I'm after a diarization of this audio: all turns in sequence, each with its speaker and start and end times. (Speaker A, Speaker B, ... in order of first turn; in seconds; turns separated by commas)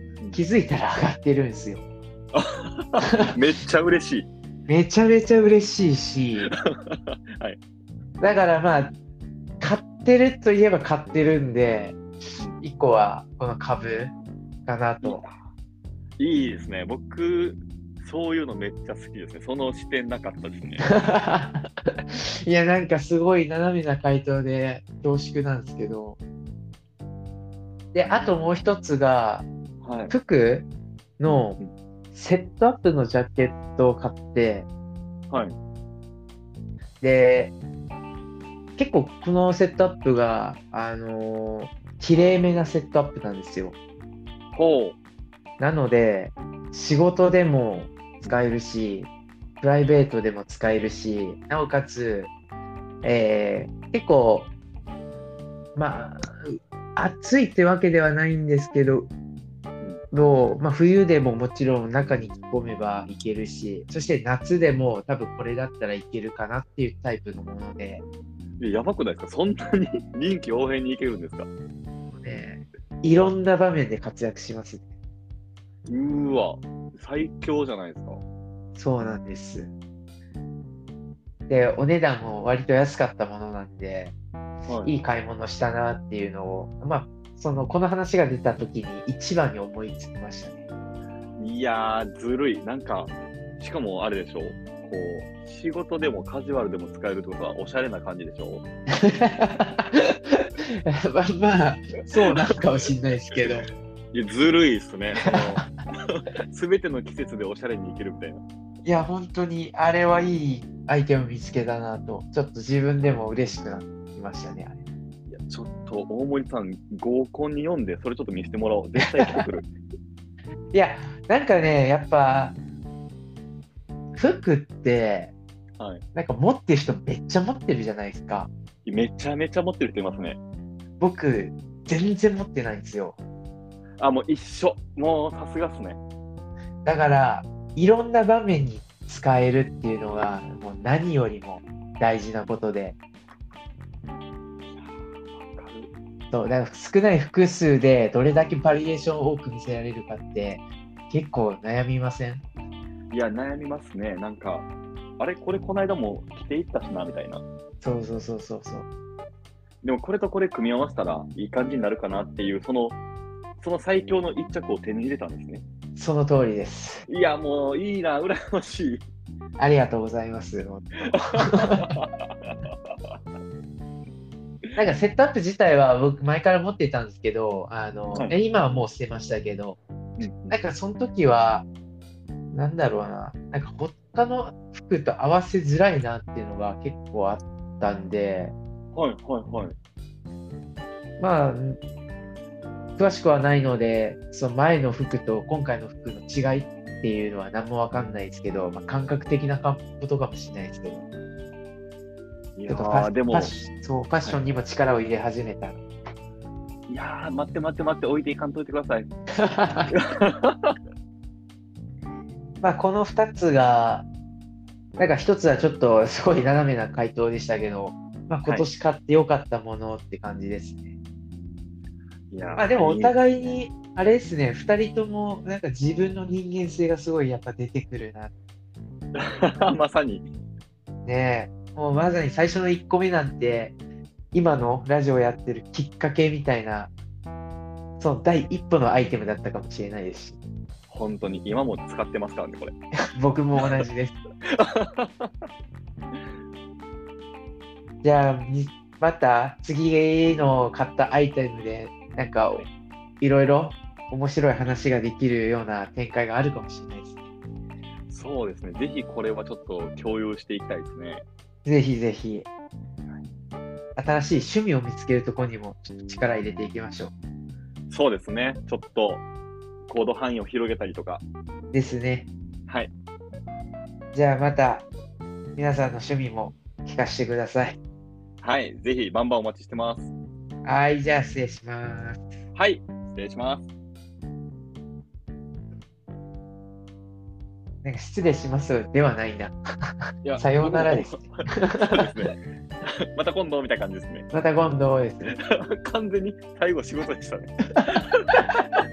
Speaker A: 0.3-1.8, Speaker B: 2.3-4.3, Speaker A: 3.1-3.3, Speaker A: 4.7-6.5, Speaker B: 6.5-7.6, Speaker A: 8.2-8.9, Speaker A: 9.6-12.0, Speaker B: 12.4-12.6, Speaker A: 12.6-14.1, Speaker A: 14.7-15.2, Speaker B: 15.0-15.4, Speaker B: 16.2-20.9, Speaker A: 20.9-21.7, Speaker A: 22.4-26.2, Speaker A: 27.9-29.4, Speaker B: 29.8-30.1, Speaker A: 30.1-31.6, Speaker B: 31.3-31.7, Speaker A: 32.1-34.7, Speaker B: 35.3-35.5, Speaker A: 37.0-37.5, Speaker A: 38.8-43.8, Speaker B: 44.5-45.0, Speaker A: 45.6-49.1, Speaker A: 49.6-52.3, Speaker A: 53.0-54.5, Speaker A: 55.8-59.1, Speaker A: 60.1-68.0, Speaker B: 68.6-71.5, Speaker A: 72.0-74.9, Speaker B: 75.9-78.2, Speaker A: 78.7-79.7, Speaker A: 81.5-84.1, Speaker B: 84.7-84.9, Speaker A: 84.8-90.6, Speaker B: 91.4-98.6, Speaker A: 99.0-103.7, Speaker B: 104.1-108.4, Speaker A: 105.2-105.6, Speaker A: 108.8-114.9, Speaker B: 115.3-119.7, Speaker A: 120.7-122.6, Speaker A: 124.2-125.3, Speaker A: 126.1-128.5, Speaker B: 128.8-130.4, Speaker A: 131.0-133.2, Speaker B: 134.0-136.0, Speaker A: 136.8-142.9, Speaker B: 144.7-145.9, Speaker A: 146.3-152.4, Speaker B: 153.1-157.4, Speaker A: 157.8-158.9, Speaker B: 159.8-163.0, Speaker B: 163.6-165.6, Speaker A: 165.9-167.0, Speaker B: 167.1-169.0, Speaker A: 169.6-171.9, Speaker B: 171.1-173.1, Speaker A: 174.8-179.8, Speaker B: 180.2-180.6, Speaker A: 180.5-181.7, Speaker A: 182.5-188.5, Speaker B: 188.9-189.8, Speaker A: 191.2-191.8, Speaker A: 193.0-201.0, Speaker B: 202.6-203.5, Speaker A: 202.7-205.8, Speaker B: 206.9-209.1, Speaker A: 209.4-209.9, Speaker B: 209.9-210.7, Speaker A: 212.6-214.1, Speaker A: 215.0-220.9, Speaker B: 222.3-223.6, Speaker A: 222.6-228.3, Speaker B: 229.1-230.3, Speaker A: 231.0-233.7, Speaker A: 234.3-236.9, Speaker A: 238.0-240.4, Speaker B: 240.9-242.7, Speaker A: 243.1-244.2, Speaker B: 244.5-245.3, Speaker A: 248.0-252.6, Speaker A: 253.2-257.2, Speaker B: 258.1-261.2, Speaker A: 261.6-262.5, Speaker A: 263.9-267.1, Speaker B: 267.9-269.2, Speaker B: 269.9-271.2, Speaker A: 271.7-272.3, Speaker B: 272.7-272.9, Speaker A: 274.1-274.9, Speaker A: 275.6-277.8, Speaker B: 278.4-280.1, Speaker A: 280.6-282.2, Speaker B: 282.5-283.7, Speaker A: 287.8-292.1, Speaker B: 290.2-294.3, Speaker A: 294.3-295.3, Speaker B: 295.3-298.4